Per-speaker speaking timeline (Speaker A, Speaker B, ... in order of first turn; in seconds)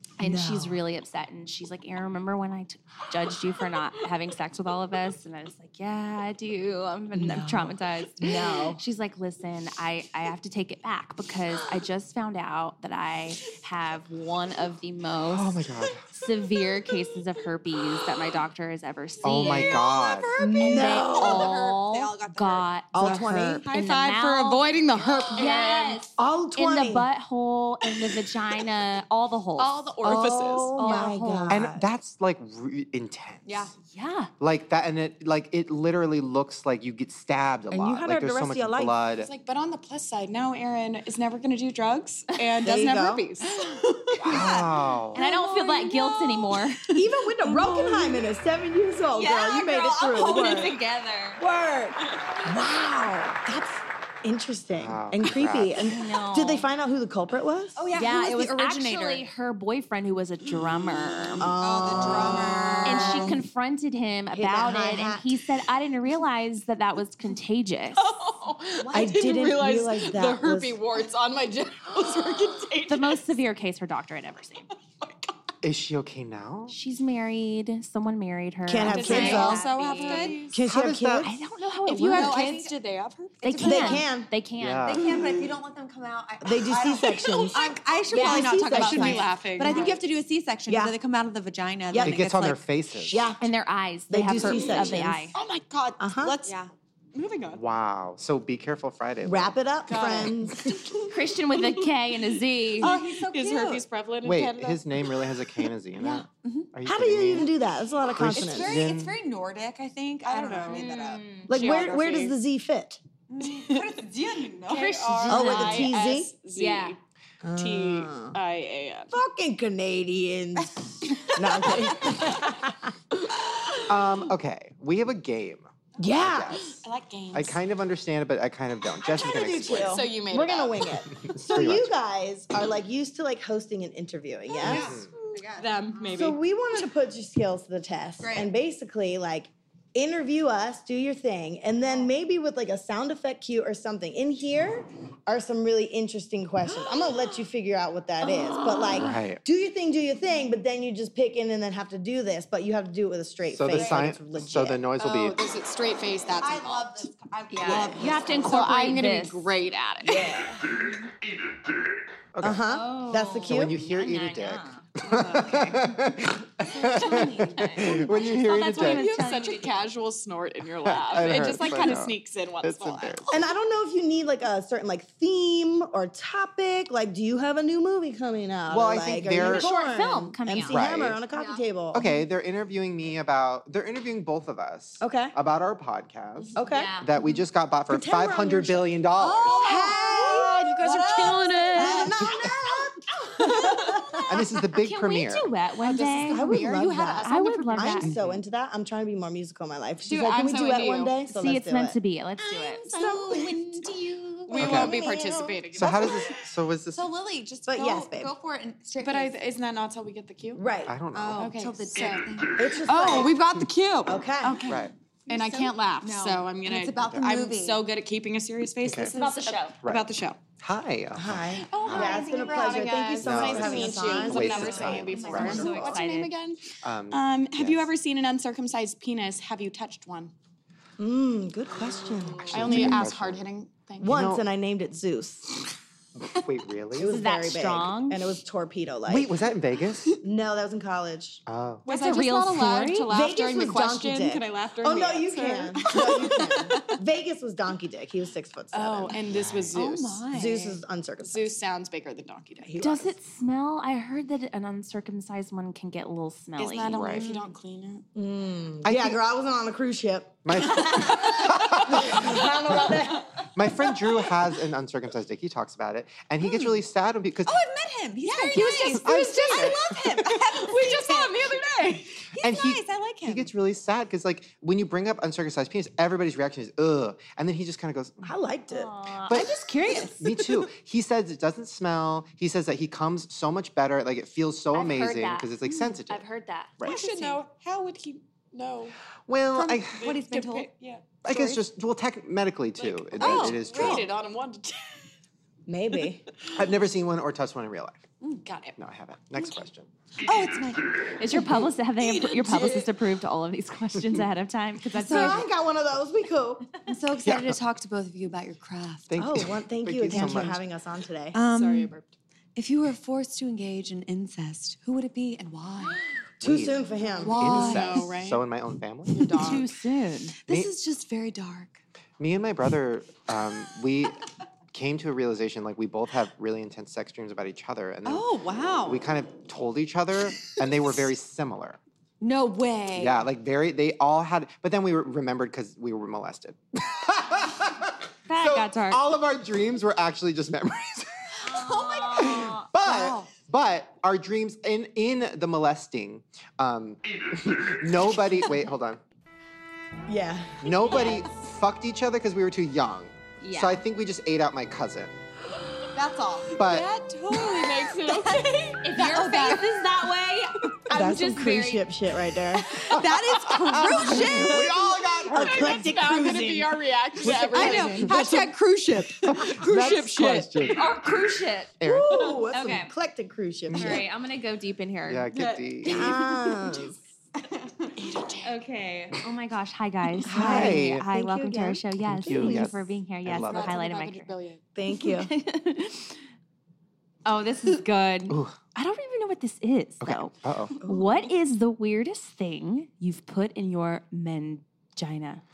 Speaker A: 0.2-19.8, 20.6-24.7, 25.4-31.7, 33.9-34.3, 45.1-46.9, 50.0-51.4, 55.8-56.6, 57.9-61.5, 62.8-68.0, 72.9-74.7, 76.7-80.4, 81.2-82.5, 83.4-85.0, 89.6-89.9, 93.4-95.4, 101.1-103.0, 110.6-111.8, 114.8-115.9, 116.5-117.0, 157.5-159.5, 162.6-164.8, 166.8-169.8, 179.4-180.8, 186.7-187.1, 194.7-198.1, 201.3-202.9, 219.1-219.7, 221.7-223.0, 225.2-226.3, 237.0-238.3, 241.8-243.1, 252.8-257.2, 278.7-280.2, 284.7-287.4, 301.2-305.5, 319.3-320.4, 338.3-339.0, 341.4-342.7, 353.4-353.8, 358.8-361.9, 370.7-372.9, 373.7-376.5, 378.4-384.3, 384.9-386.2, 387.2-395.4
Speaker B: 0.2-0.8, 7.1-8.8, 20.4-21.6, 22.9-23.6, 26.2-27.1, 30.0-31.9, 37.7-38.9, 42.6-43.2, 46.9-50.8, 51.4-57.9, 61.4-63.4, 64.3-65.3, 68.9-70.8, 78.7-79.6, 80.5-81.5, 83.6-84.3, 86.4-89.9, 90.7-91.0, 91.9-92.2, 93.1-93.4, 94.1-95.3, 96.0-96.3, 99.2-100.9, 106.8-108.8, 111.5-113.0, 115.3-116.3, 117.4-118.3, 119.1-123.0, 126.0-126.6, 129.2-135.0, 136.1-154.8, 160.0-160.7, 162.4-163.8, 173.3-182.0, 185.0-185.3, 186.5-186.9, 187.9-189.0, 189.6-191.0, 191.7-194.5, 196.2-202.0, 202.9-203.6, 207.7-208.3, 210.5-210.9, 212.5-213.4, 214.0-214.7, 221.1-226.0, 231.0-233.1, 234.0-235.6, 236.9-239.3, 240.2-241.4, 243.1-249.2, 250.3-251.5, 252.6-253.1, 258.1-263.4, 278.2-278.9, 295.7-296.2, 305.1-306.7, 309.2-311.4, 316.4-317.7, 350.1-351.0, 360.9-362.8, 365.3-368.5, 371.8-374.0, 375.8-377.0, 380.3-382.7, 384.8-385.3
Speaker C: 15.3-16.0, 19.2-20.3, 23.0-23.3, 31.5-33.5, 34.4-39.3, 44.2-45.2, 54.7-55.8, 75.6-76.7, 80.6-81.3, 84.6-85.0, 92.0-93.2, 97.5-99.5, 104.2-109.2, 123.9-126.8, 127.3-130.0, 131.1-131.9, 134.6-135.1, 148.9-149.4, 153.5-155.4, 162.3-162.6, 163.4-169.1, 170.8-173.3, 178.7-179.7, 180.7-181.2, 181.9-189.6, 194.3-195.5, 198.0-198.4, 204.5-205.0, 205.7-207.1, 210.9-211.6, 214.7-214.9, 217.1-217.4, 218.8-219.1, 219.8-222.2, 223.2-225.7, 226.8-227.9, 232.5-233.5, 234.0-234.4, 236.2-237.2, 239.1-240.2, 241.5-241.9, 249.3-249.8, 256.9-257.3, 258.8-259.2, 260.4-262.9, 263.4-267.6, 268.5-269.9, 272.4-278.3, 279.3-286.2, 289.3-290.1, 291.2-294.1, 296.5-298.0, 298.8-299.9, 307.2-307.6, 309.1-310.6, 316.4-319.5, 322.2-324.2, 324.7-328.2, 328.8-331.8, 332.9-341.4, 342.1-349.0, 350.6-355.2, 356.6-356.9, 362.9-365.8, 369.2-370.9, 371.8-372.2, 373.7-374.0, 375.1-376.1, 380.3-381.0, 382.0-383.8, 388.3-388.6, 390.0-390.8
Speaker D: 19.3-22.7, 23.6-23.9, 25.0-25.7, 33.5-33.7, 44.1-46.4, 47.6-48.0, 49.1-50.8, 57.8-59.2, 61.5-63.4, 68.8-69.3, 79.0-80.4, 82.1-82.7, 83.6-83.9, 84.9-93.3, 94.4-95.0, 96.2-96.7, 102.8-103.8, 106.0-106.7, 108.3-112.0, 113.3-115.6, 120.6-122.4, 129.0-130.0, 134.5-136.3, 138.2-138.5, 156.4-158.7, 165.1-165.8, 166.8-167.9, 181.3-181.6, 189.2-194.2, 202.4-206.0, 206.9-209.4, 211.1-213.4, 214.4-217.9, 224.6-226.1, 245.9-246.9, 249.7-250.8, 267.4-271.6, 272.3-273.5, 289.5-290.7, 291.3-291.6, 293.2-294.0, 300.2-301.7, 304.9-305.5, 306.9-309.1, 310.1-310.5, 311.3-311.9, 312.5-316.0, 317.2-318.1, 320.4-321.8, 328.0-329.0, 332.2-333.2, 341.4-343.3, 350.9-351.2, 355.9-359.8, 362.8-364.8, 367.3-370.4
Speaker E: 23.7-26.1, 29.6-30.9, 39.2-44.4, 52.0-52.3, 67.9-73.4, 78.8-80.6, 81.8-84.0, 85.1-85.5, 88.0-90.0, 94.5-96.5, 97.1-97.6, 99.9-101.8, 102.8-105.4, 110.2-110.9, 111.5-112.3, 113.4-114.0, 114.6-117.0, 117.5-119.1, 126.7-127.6, 129.8-130.9, 135.5-136.4, 155.0-157.1, 157.6-160.3, 165.2-165.6, 167.0-167.3, 168.7-173.4, 189.5-192.2, 193.4-193.8, 195.8-198.1, 200.0-201.2, 204.5-206.3, 209.0-210.7, 211.3-220.4, 221.7-230.3, 232.4-234.2, 241.8-246.9, 248.7-250.3, 251.2-252.8, 256.6-258.0, 268.2-272.3, 286.8-288.9, 290.0-291.2, 292.8-295.1, 298.4-298.8, 302.0-302.9, 311.5-312.1, 317.4-318.5, 319.1-319.7, 356.6-359.0, 362.6-364.7, 365.3-368.2, 369.3-370.6, 377.9-378.5, 383.4-384.6